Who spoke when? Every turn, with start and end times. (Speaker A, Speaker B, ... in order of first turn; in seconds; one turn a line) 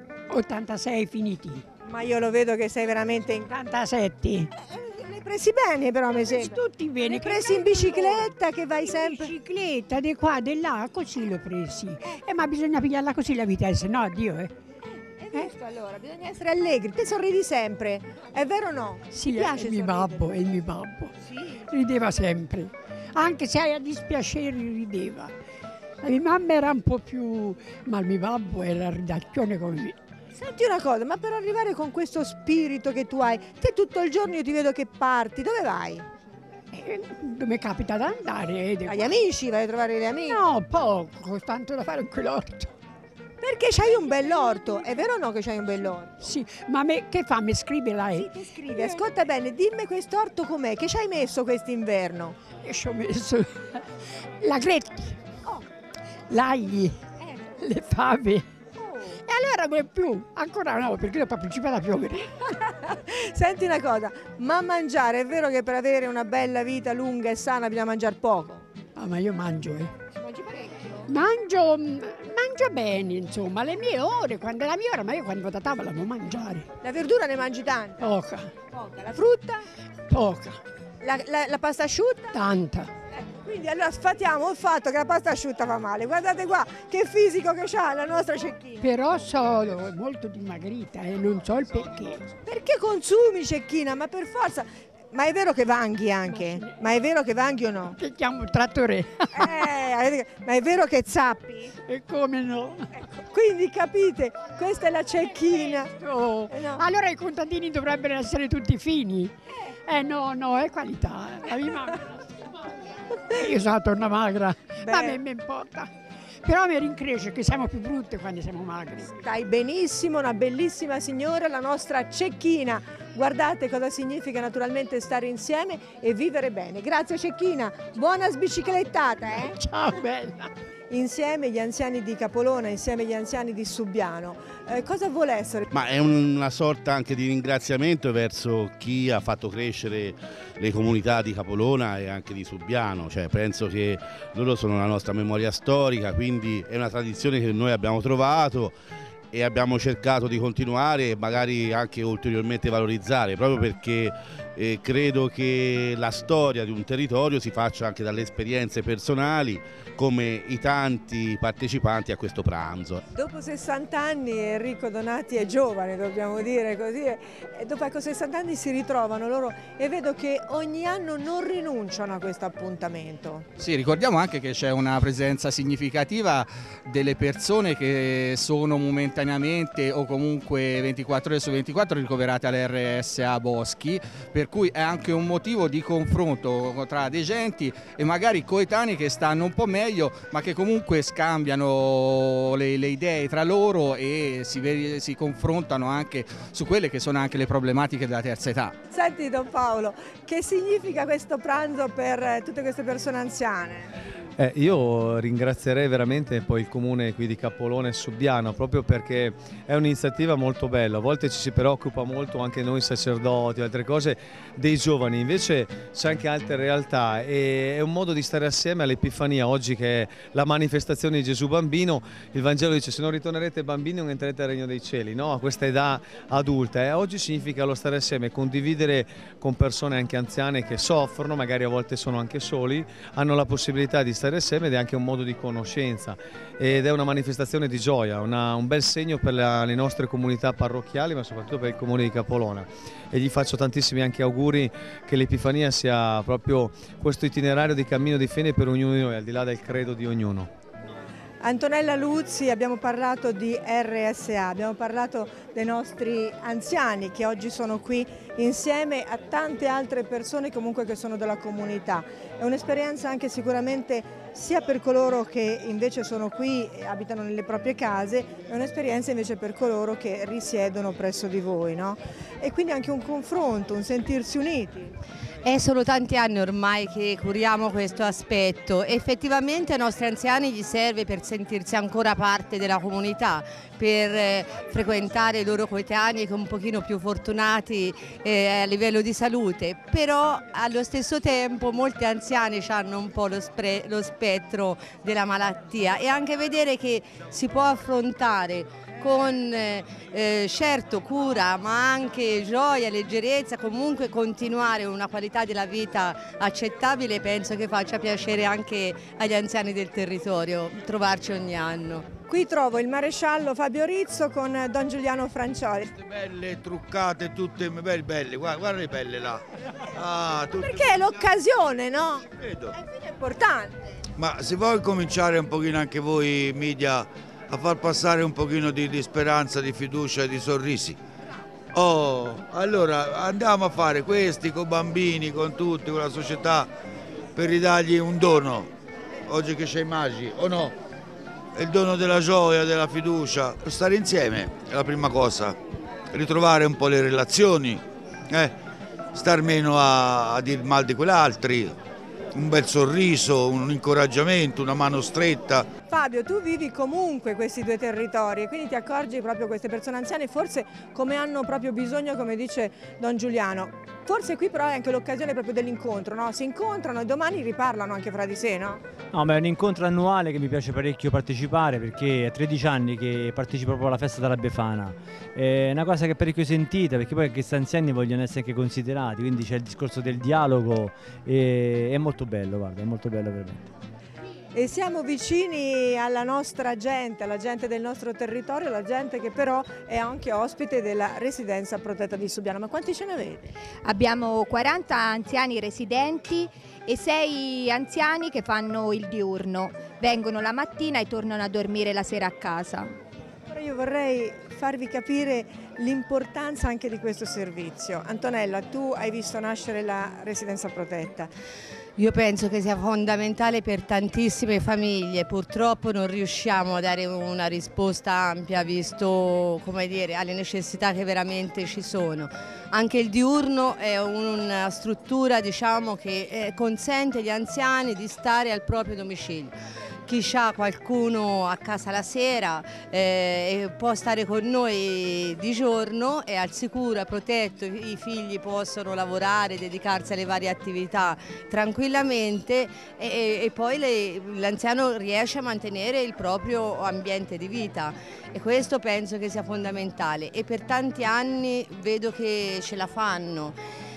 Speaker A: 0.3-1.6
Speaker B: 1.8-3.5
Speaker A: 3.5-4.5
Speaker B: 4.6-9.3
Speaker A: 6.2-8.3
Speaker A: 8.8-14.5
Speaker B: 15.2-20.3
Speaker A: 19.1-25.3
Speaker A: 26.0-29.9
Speaker B: 30.3-36.0
Speaker A: 36.7-39.1
Speaker B: 38.9-40.4
Speaker A: 40.3-42.7
Speaker B: 43.4-46.3
Speaker A: 46.2-48.8
Speaker B: 48.1-52.4
Speaker A: 52.6-53.8
Speaker A: 54.4-55.2
Speaker A: 56.3-58.4
Speaker A: 59.2-62.3
Speaker B: 62.6-68.7
Speaker A: 69.0-69.9
Speaker B: 70.2-71.0
Speaker A: 71.1-76.7
Speaker B: 76.8-78.2
Speaker A: 78.0-78.5
Speaker B: 78.7-79.7
Speaker A: 80.1-80.6
Speaker B: 81.0-82.4
Speaker A: 82.3-82.9
Speaker B: 83.1-88.9
Speaker A: 88.8-92.2
Speaker B: 92.5-98.0
Speaker A: 96.3-96.7
Speaker A: 98.0-99.6
Speaker B: 99.3-101.7
Speaker A: 101.9-102.9
Speaker B: 103.2-105.9
Speaker A: 105.6-109.3
Speaker B: 106.5-106.8
Speaker A: 109.9-112.5
Speaker A: 113.3-115.9
Speaker B: 114.8-115.2
Speaker A: 116.4-119.1
Speaker B: 119.2-129.6
Speaker A: 129.4-130.5
Speaker B: 130.9-135.6
Speaker C: 135.7-148.7
Speaker C: 149.3-163.0
Speaker B: 163.1-173.5
Speaker D: 173.6-198.7
Speaker B: 198.9-203.9
Speaker E: 204.4-250.5
Speaker B: 251.4-274.9
Speaker F: 275.4-312.0
Speaker B: 312.3-315.9
Speaker G: 316.0-319.4
Speaker G: 319.9-321.0
Speaker B: 320.5-323.8
Speaker G: 322.4-322.7
Speaker G: 324.2-331.0
Speaker G: 331.7-336.7
Speaker G: 337.3-338.7
Speaker G: 339.3-340.7
Speaker G: 341.6-345.6
Speaker G: 346.1-348.5
Speaker G: 349.1-351.7
Speaker G: 352.3-355.7
Speaker B: 355.9-368.8
Speaker H: 369.1-383.7
Speaker B: 384.5-393.5
Speaker I: 393.8-402.9
Speaker B: 403.5-411.3
Speaker F: 412.0-429.5
Speaker F: 430.1-453.6